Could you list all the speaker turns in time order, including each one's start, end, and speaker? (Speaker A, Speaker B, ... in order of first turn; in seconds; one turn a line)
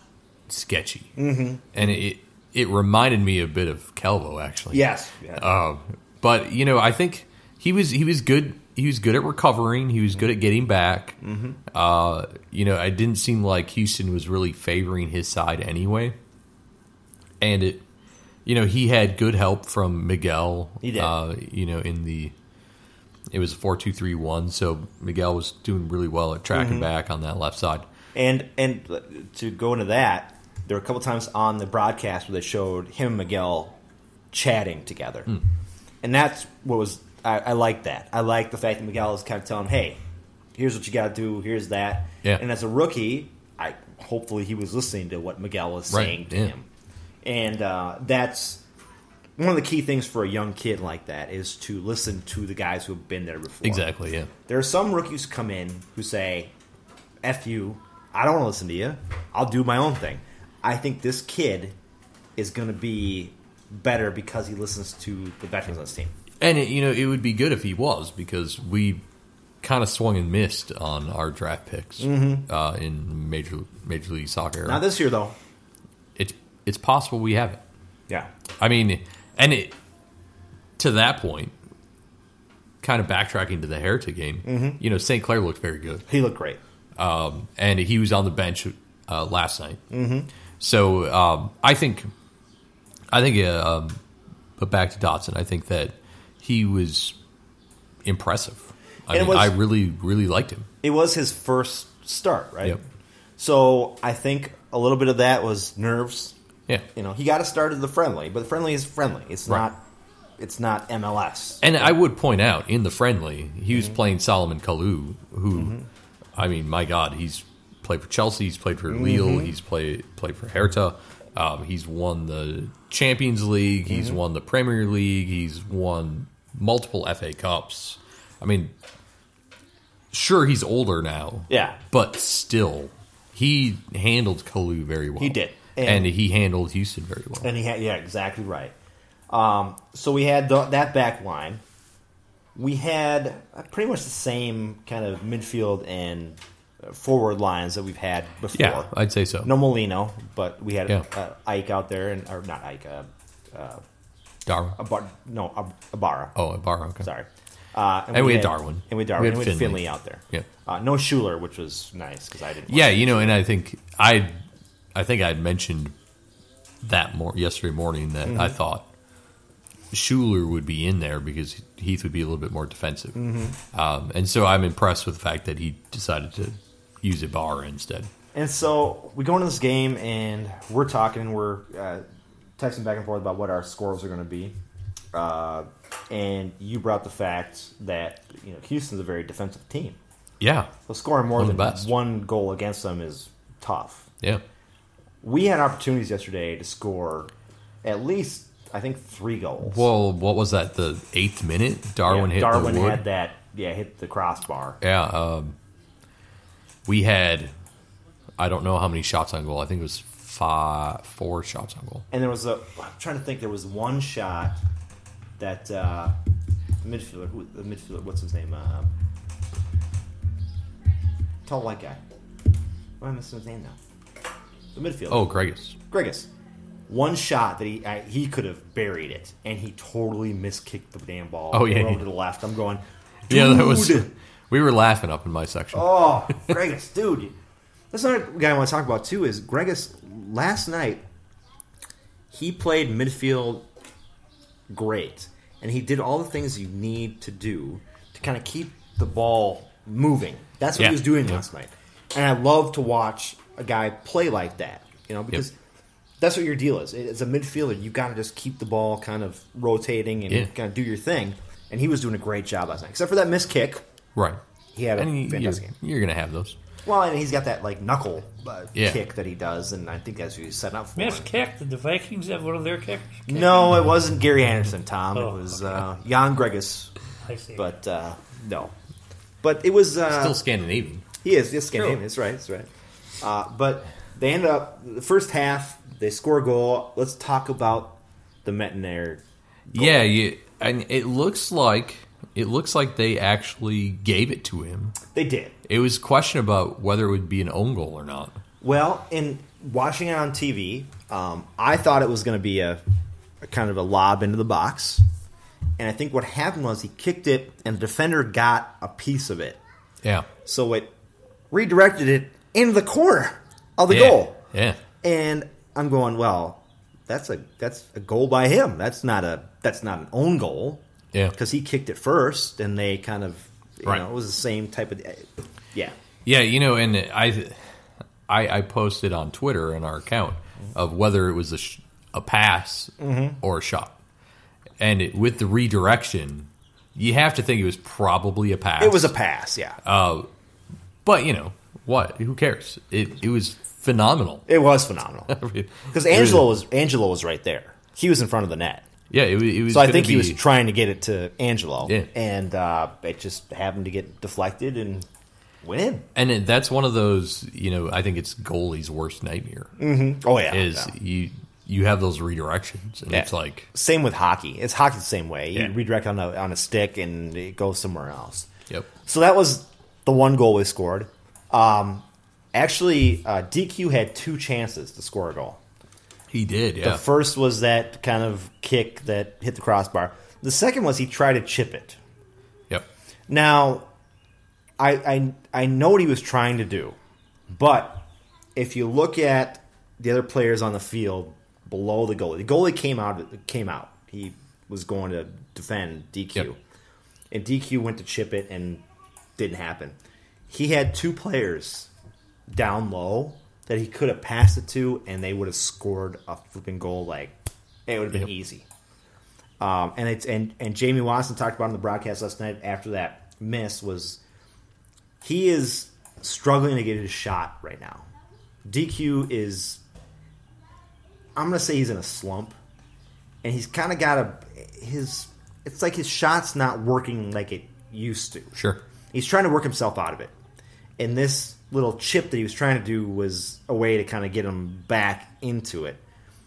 Speaker A: 0.5-1.1
Speaker B: 1.2-2.0
Speaker A: 1.7-4.8
Speaker B: 4.7-5.5
Speaker A: 5.4-11.2
Speaker B: 11.2-11.6
Speaker A: 11.7-16.2
Speaker A: 17.4-17.8
Speaker A: 18.4-22.3
Speaker B: 20.8-21.1
Speaker A: 23.3-27.9
Speaker B: 26.5-26.9
Speaker B: 28.1-33.8
Speaker B: 34.3-35.3
Speaker B: 36.0-40.0
Speaker B: 40.5-46.7
Speaker A: 45.9-46.5
Speaker B: 47.2-48.6
Speaker B: 49.4-53.9
Speaker A: 53.6-54.3
Speaker B: 54.5-56.5
Speaker B: 57.2-61.8
Speaker B: 62.4-66.1
Speaker A: 66.4-69.0
Speaker A: 69.6-74.8
Speaker B: 72.0-72.5
Speaker B: 74.7-75.4
Speaker A: 76.2-77.6
Speaker A: 78.6-79.8
Speaker A: 80.8-81.5
Speaker A: 82.8-86.0
Speaker B: 84.5-84.8
Speaker B: 86.1-86.6
Speaker A: 87.0-89.8
Speaker B: 89.9-90.3
Speaker A: 90.6-92.1
Speaker A: 93.1-94.0
Speaker A: 94.6-97.2
Speaker A: 98.0-100.7
Speaker B: 99.1-99.5
Speaker B: 100.8-102.8
Speaker B: 103.4-106.4
Speaker B: 106.9-109.8
Speaker B: 110.4-111.9
Speaker A: 111.6-115.8
Speaker B: 115.5-115.9
Speaker A: 116.4-128.7
Speaker B: 118.9-119.5
Speaker B: 123.9-124.2
Speaker A: 130.1-137.5
Speaker B: 131.5-131.8
Speaker B: 135.2-136.1
Speaker B: 137.4-138.7
Speaker B: 139.3-141.6
Speaker B: 142.6-148.9
Speaker A: 148.5-149.5
Speaker B: 149.4-153.8
Speaker A: 154.5-154.8
Speaker B: 154.8-156.4
Speaker A: 156.4-157.1
Speaker B: 157.0-163.4
Speaker A: 158.1-160.5
Speaker A: 162.7-164.4
Speaker A: 164.9-165.9
Speaker A: 166.8-168.9
Speaker B: 168.2-168.6
Speaker A: 169.9-178.1
Speaker B: 173.2-173.6
Speaker B: 178.3-182.0
Speaker B: 182.6-184.6
Speaker B: 185.1-190.0
Speaker A: 190.4-190.7
Speaker B: 190.9-194.1
Speaker A: 191.4-191.9
Speaker B: 195.2-197.3
Speaker B: 197.8-199.9
Speaker A: 199.6-203.0
Speaker B: 202.1-204.8
Speaker A: 204.8-205.6
Speaker A: 206.9-207.5
Speaker A: 208.4-212.1
Speaker B: 212.1-214.6
Speaker B: 215.4-216.2
Speaker B: 216.8-218.9
Speaker B: 221.4-222.0
Speaker B: 223.0-223.8
Speaker B: 224.7-226.3
Speaker A: 225.1-225.8
Speaker B: 226.9-234.1
Speaker A: 231.5-232.0
Speaker A: 233.3-236.6
Speaker B: 235.7-237.3
Speaker B: 237.9-241.1
Speaker B: 242.3-243.7
Speaker B: 244.7-255.6
Speaker A: 250.8-251.4
Speaker B: 256.2-263.8
Speaker B: 264.7-265.7
Speaker A: 265.0-266.6
Speaker B: 266.9-271.3
Speaker A: 268.8-269.0
Speaker C: 270.9-273.6
Speaker B: 273.3-276.9
Speaker C: 275.1-275.8
Speaker C: 277.2-277.6
Speaker B: 277.6-278.8
Speaker B: 279.4-280.4
Speaker A: 280.1-281.1
Speaker B: 281.2-290.1
Speaker A: 289.7-295.0
Speaker B: 295.1-295.6
Speaker A: 295.7-298.4
Speaker B: 298.6-302.8
Speaker B: 303.4-305.1
Speaker B: 305.8-309.6
Speaker B: 310.4-310.9
Speaker B: 311.5-314.4
Speaker A: 313.9-314.8
Speaker B: 315.0-326.0
Speaker A: 326.3-334.0
Speaker B: 333.0-333.4
Speaker A: 334.8-339.1
Speaker B: 338.8-339.8
Speaker A: 339.8-340.3
Speaker A: 341.1-344.5
Speaker B: 344.5-348.9
Speaker A: 345.3-346.5
Speaker A: 349.1-350.4
Speaker B: 349.7-355.1
Speaker A: 351.8-352.1
Speaker B: 355.6-356.1
Speaker A: 356.1-359.8
Speaker B: 359.8-360.9
Speaker A: 360.5-363.7
Speaker B: 363.1-368.5
Speaker B: 369.0-375.6
Speaker A: 376.3-377.0
Speaker B: 376.8-382.0
Speaker B: 383.3-383.9
Speaker B: 384.8-387.0
Speaker B: 387.5-396.6
Speaker B: 397.3-398.8
Speaker B: 399.4-400.0
Speaker B: 400.5-401.9
Speaker B: 402.5-407.4
Speaker B: 407.9-408.7
Speaker B: 409.6-414.2
Speaker B: 415.2-418.1
Speaker B: 418.6-419.8
Speaker B: 421.4-422.6
Speaker B: 423.4-428.6
Speaker A: 428.6-428.8
Speaker B: 429.1-430.3
Speaker B: 431.0-436.0